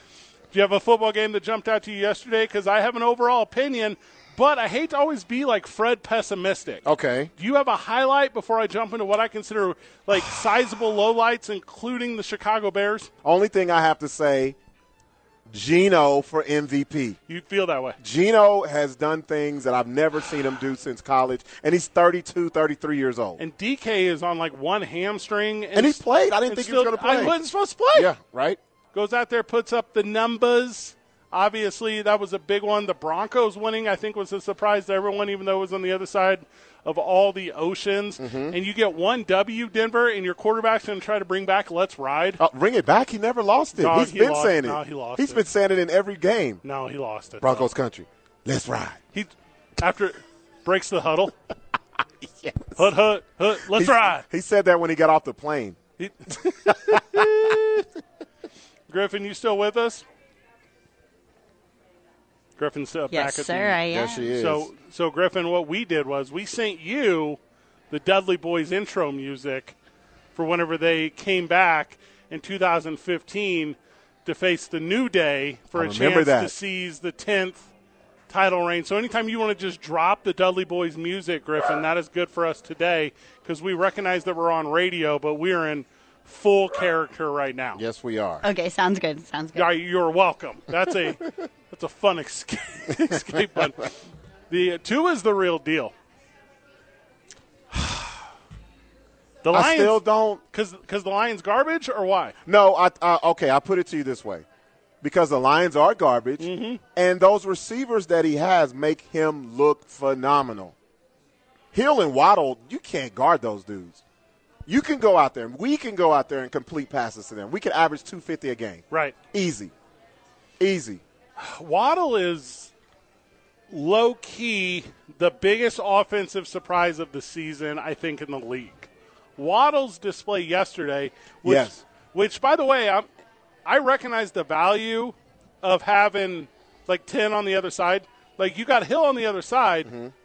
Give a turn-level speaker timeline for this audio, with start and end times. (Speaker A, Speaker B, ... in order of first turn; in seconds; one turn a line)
Speaker A: 0.5-6.8
Speaker B: 6.8-7.3
Speaker A: 7.4-13.1
Speaker B: 13.2-14.6
Speaker B: 15.5-17.2
Speaker A: 17.3-18.0
Speaker B: 18.0-23.4
Speaker A: 23.4-28.1
Speaker B: 25.7-27.4
Speaker B: 27.9-28.6
Speaker A: 28.9-42.4
Speaker B: 38.2-38.6
Speaker B: 42.4-46.6
Speaker A: 43.8-45.4
Speaker A: 46.6-47.7
Speaker B: 47.4-49.0
Speaker A: 49.1-51.4
Speaker B: 52.2-52.9
Speaker A: 52.8-54.2
Speaker B: 53.6-55.8
Speaker A: 56.0-57.8
Speaker B: 56.7-57.8
Speaker A: 58.9-60.0
Speaker A: 62.6-67.4
Speaker C: 63.1-64.3
Speaker B: 63.9-64.7
Speaker A: 67.9-69.7
Speaker A: 70.3-77.7
Speaker B: 75.7-76.5
Speaker A: 78.3-87.8
Speaker B: 87.8-88.4
Speaker C: 88.4-89.7
Speaker A: 89.5-94.0
Speaker A: 94.5-95.9
Speaker B: 97.7-98.1
Speaker A: 99.4-102.3
Speaker B: 99.5-100.4
Speaker B: 102.5-104.4
Speaker B: 105.0-110.8
Speaker A: 106.4-106.8
Speaker B: 111.7-114.0
Speaker B: 114.7-119.7
Speaker A: 118.9-119.2
Speaker B: 120.6-121.0
Speaker A: 121.4-122.7
Speaker A: 123.7-133.1
Speaker B: 131.4-131.8
Speaker A: 133.7-139.9
Speaker B: 139.8-140.1